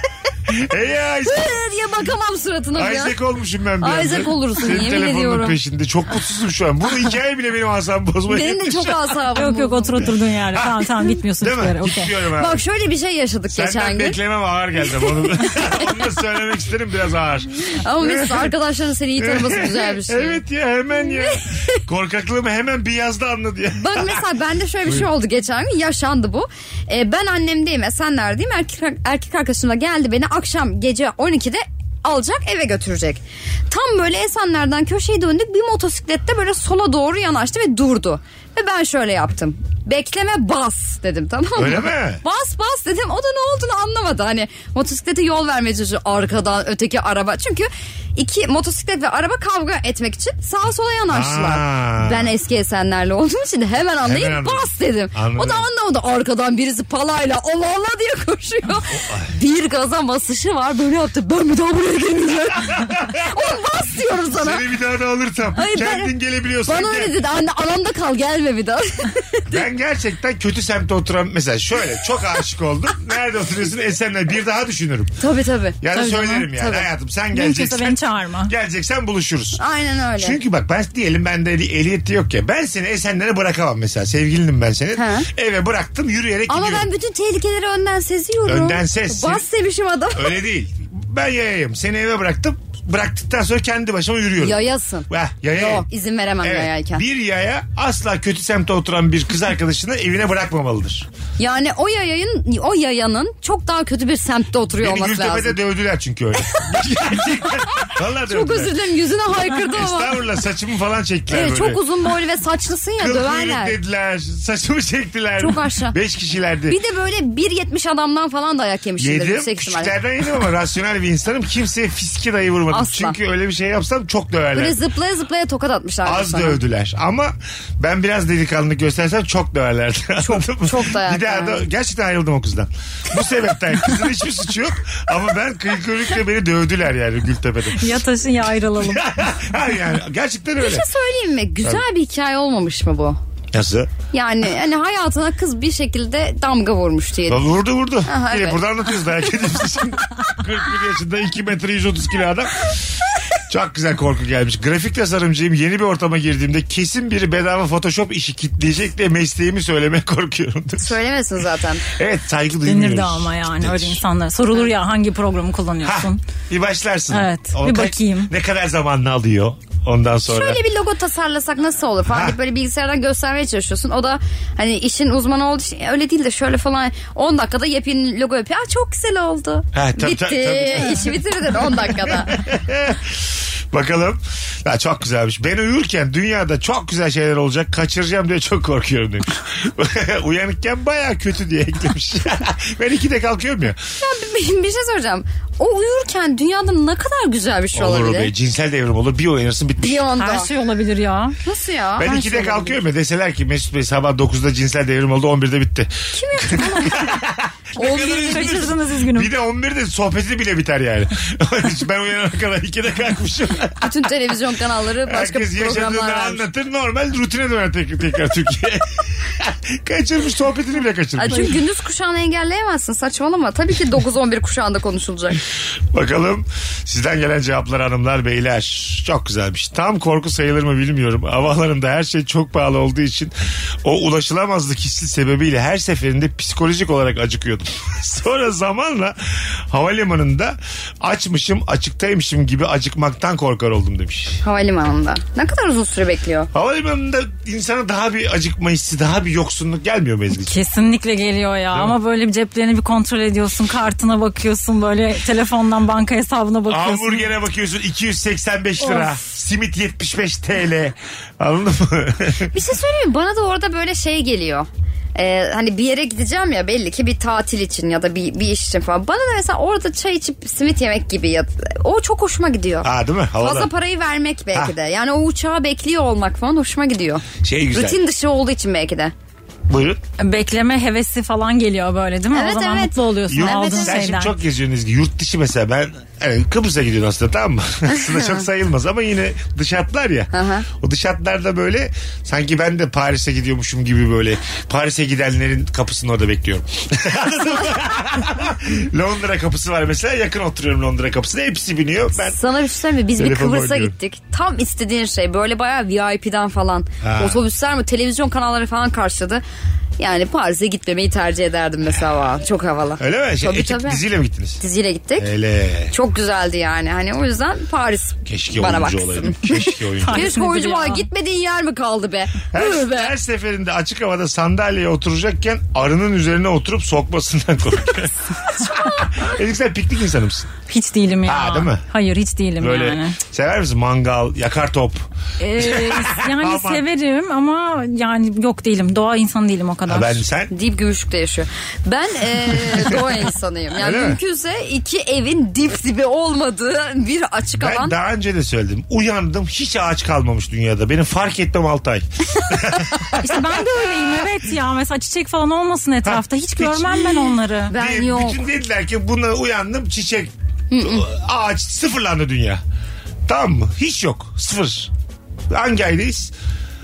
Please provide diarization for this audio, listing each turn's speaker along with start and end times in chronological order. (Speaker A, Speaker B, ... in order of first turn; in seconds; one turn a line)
Speaker A: 0.5-1.6
Speaker B: 1.2-3.1
Speaker A: 2.8-9.1
Speaker B: 3.8-5.5
Speaker B: 8.3-10.0
Speaker C: 9.3-12.1
Speaker A: 10.5-10.9
Speaker A: 11.4-12.6
Speaker B: 12.4-14.2
Speaker A: 13.5-18.5
Speaker B: 15.4-15.7
Speaker B: 17.8-20.4
Speaker A: 19.2-24.2
Speaker B: 21.2-21.6
Speaker B: 23.8-64.6
Speaker A: 41.6-42.2
Speaker A: 51.1-52.3
Speaker A: 54.0-55.7
Speaker A: 58.9-59.3
Speaker A: 62.8-63.2
Speaker A: 64.4-67.1
Speaker B: 65.6-66.1
Speaker B: 66.7-69.6
Speaker A: 69.5-75.1
Speaker B: 75.2-75.8
Speaker A: 75.8-79.6
Speaker C: 75.9-76.5
Speaker B: 76.6-76.8
Speaker C: 77.3-78.5
Speaker B: 79.6-80.4
Speaker A: 80.2-86.9
Speaker B: 85.0-85.3
Speaker B: 86.5-90.4
Speaker A: 88.5-89.5
Speaker A: 90.1-95.9
Speaker B: 94.4-97.0
Speaker A: 96.4-101.1
Speaker B: 101.4-105.6
Speaker A: 104.8-108.7
Speaker B: 107.8-110.1
Speaker A: 109.6-111.8
Speaker B: 111.3-113.8
Speaker A: 113.0-116.8
Speaker B: 115.4-116.0
Speaker B: 116.7-120.0
Speaker A: 119.0-124.8
Speaker B: 122.7-123.2
Speaker B: 124.5-126.6
Speaker A: 126.0-138.0
Speaker B: 130.2-131.7
Speaker C: 137.8-139.1
Speaker A: 138.8-140.9
Speaker B: 140.6-143.2
Speaker A: 143.5-143.9
Speaker B: 144.1-147.4
Speaker A: 147.3-152.8
Speaker B: 148.1-148.6
Speaker A: 153.5-161.0
Speaker B: 160.8-161.8
Speaker A: 161.9-164.0
Speaker C: 162.7-166.2
Speaker A: 165.8-170.6
Speaker C: 167.1-168.3
Speaker B: 170.3-182.4
Speaker A: 172.1-172.4
Speaker A: 179.7-193.8
Speaker B: 194.0-198.3
Speaker A: 197.7-200.0
Speaker B: 199.8-200.5
Speaker C: 200.2-201.4
Speaker B: 201.4-202.8
Speaker A: 202.0-213.9
Speaker B: 206.1-207.0
Speaker C: 207.8-209.3
Speaker B: 213.8-216.4
Speaker A: 215.1-221.6
Speaker B: 221.2-225.4
Speaker A: 225.9-233.3
Speaker A: 233.8-244.4
Speaker B: 244.4-246.5
Speaker A: 246.5-250.6
Speaker C: 250.4-257.3
Speaker A: 256.7-262.5
Speaker C: 258.8-259.1
Speaker B: 262.5-279.1
Speaker A: 272.8-273.7
Speaker A: 277.4-278.0
Speaker A: 279.7-280.0
Speaker C: 280.2-284.4
Speaker B: 282.3-284.0
Speaker A: 283.3-302.4
Speaker B: 288.0-288.4
Speaker B: 290.3-290.7
Speaker B: 302.2-309.4
Speaker A: 303.2-303.9
Speaker A: 307.0-307.4
Speaker B: 310.0-314.0
Speaker A: 313.0-314.6
Speaker B: 314.6-315.3
Speaker A: 315.2-315.9
Speaker B: 315.9-323.1
Speaker A: 318.2-320.3
Speaker C: 320.0-321.1
Speaker A: 322.5-330.5
Speaker C: 330.7-333.2
Speaker A: 331.2-331.8
Speaker A: 332.6-335.0
Speaker C: 335.4-340.2
Speaker A: 335.6-336.8
Speaker A: 339.9-340.5
Speaker B: 340.5-347.9
Speaker A: 343.8-344.2
Speaker A: 347.6-353.6
Speaker C: 353.2-357.7
Speaker A: 356.1-357.2
Speaker B: 357.7-358.4
Speaker A: 357.7-362.6
Speaker B: 360.7-361.1
Speaker A: 363.3-364.9
Speaker A: 365.5-366.3